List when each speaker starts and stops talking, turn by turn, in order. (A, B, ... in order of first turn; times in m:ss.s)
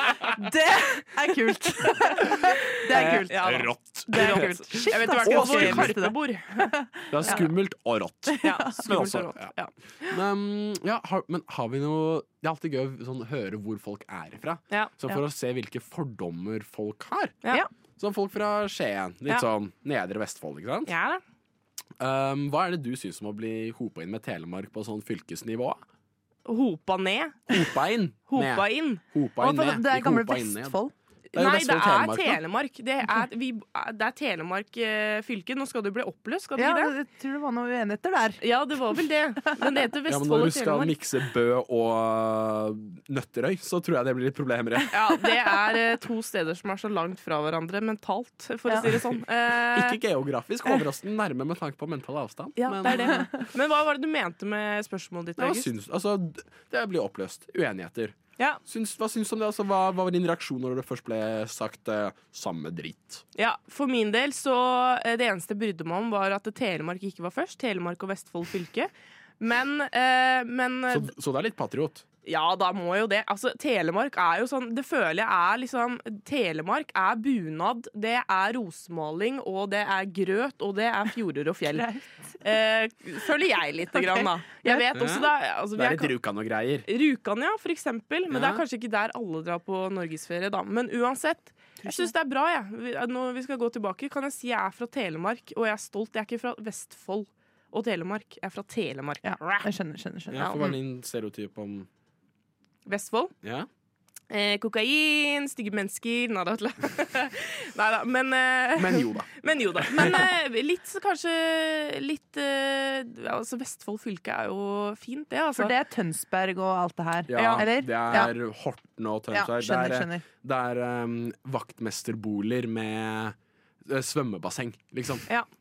0:00.3-0:07.5 A
0:02.9-0:06.7 B
0:02.9-0:06.0 C
0:07.1-0:09.5 C
0:08.3-0:08.9 A
0:08.4-0:10.2 B
0:10.1-0:17.4 C
0:18.0-0:21.0 C
0:20.9-0:21.2 B
0:22.0-0:25.8 C
0:26.4-0:27.5 B
0:27.5-0:30.8 C
0:28.3-0:29.0 B
0:29.4-0:30.9 A
0:31.3-0:36.9 B
0:31.3-0:32.4 C
0:36.6-0:38.4 A
0:38.4-0:41.0 B
0:40.1-0:45.0 C
0:44.9-0:50.0 B
0:49.6-0:53.3 C
0:52.6-0:55.7 B
0:55.4-1:03.2 C
1:03.4-1:11.1 B
1:10.9-1:12.0 C
1:12.2-1:21.9 B
1:21.7-1:22.4 A
1:22.4-1:26.2 B
1:24.0-1:24.8 A
1:24.9-1:26.9 C
1:26.9-1:39.7 B
1:28.3-1:28.6 C
1:31.8-1:32.1 A
1:39.2-1:40.5 A
1:40.3-1:41.9 C
1:40.4-1:40.8 B
1:42.9-1:43.3 B
1:43.4-1:43.7 C
1:44.3-1:55.7 B
1:48.8-1:50.3 C
1:55.6-1:58.3 A
1:57.3-2:05.3 C
1:57.3-1:58.3 B
1:59.3-2:00.2 A